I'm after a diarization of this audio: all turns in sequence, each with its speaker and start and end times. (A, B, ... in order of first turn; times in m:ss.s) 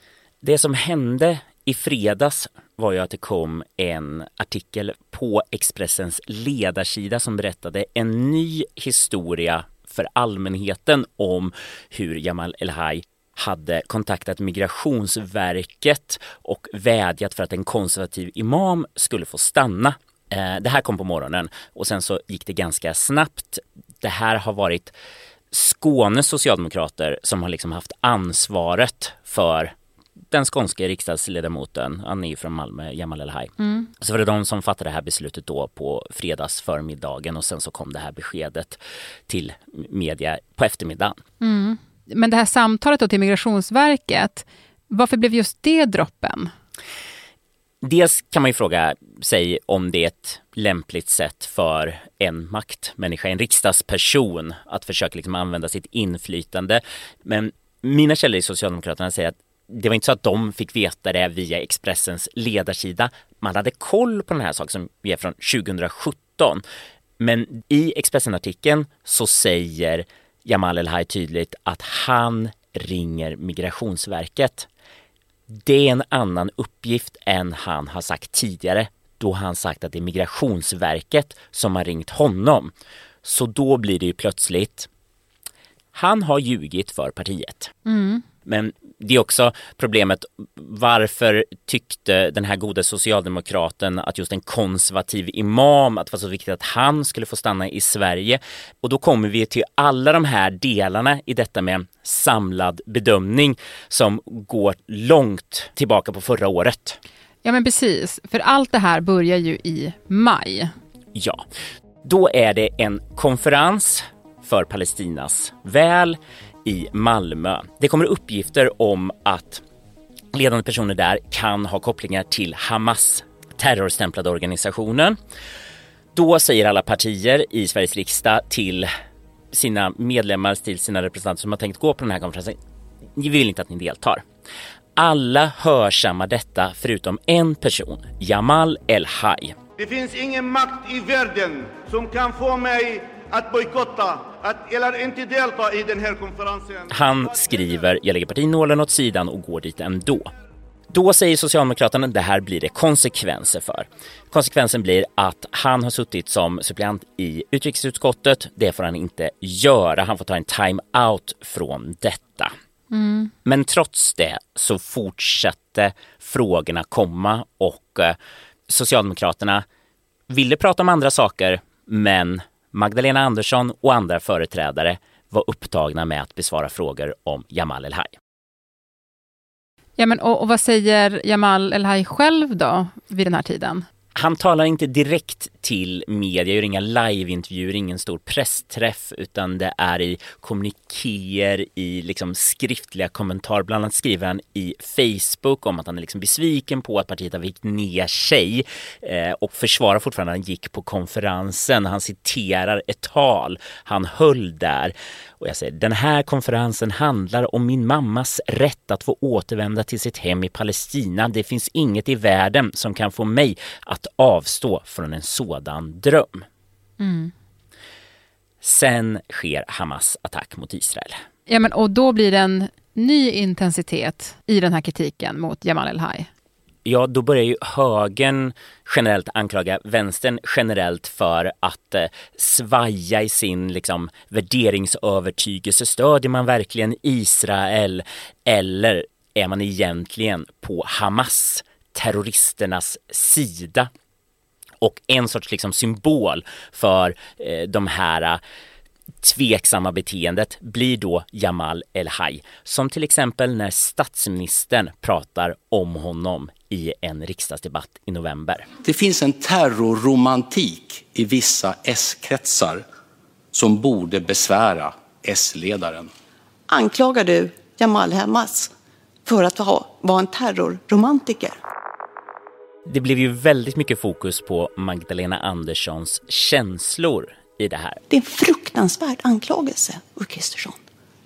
0:00.4-0:24.9 A
0:25.5-0:29.7 A
0:30.3-0:41.2 A
0:41.4-0:46.5 B
0:47.8-1:06.6 A
1:07.2-1:14.7 A
1:15.5-1:22.7 A
1:23.2-1:24.9 A
1:25.9-1:27.7 A
1:27.9-1:28.2 B
1:28.4-1:47.0 A
1:47.4-1:50.7 B
1:51.1-1:51.4 A
1:52.0-1:59.6 A
2:00.3-2:05.2 A
2:06.1-2:08.9 A
2:09.5-2:12.6 A
2:13.2-2:14.2 A
2:15.0-2:19.6 A
2:19.8-2:26.9 C
2:26.9-2:30.3 A
2:30.9-2:42.5 A
2:42.9-2:43.3 B
2:43.4-2:48.2 A
2:48.7-2:49.6 A
2:50.3-2:58.1 A
3:00.0-3:03.9 B
3:04.2-3:36.4 A
3:37.0-3:37.3 B
3:38.6-3:41.2 A
3:41.5-3:46.3 B
3:46.8-4:03.9 A
4:04.8-4:08.4 A
4:09.2-4:18.6 A
4:18.8-4:22.8 D
4:23.5-4:26.1 D
4:26.7-4:28.7 E
4:29.2-4:31.6 E
4:32.9-4:38.0 A
4:38.1-4:40.8 E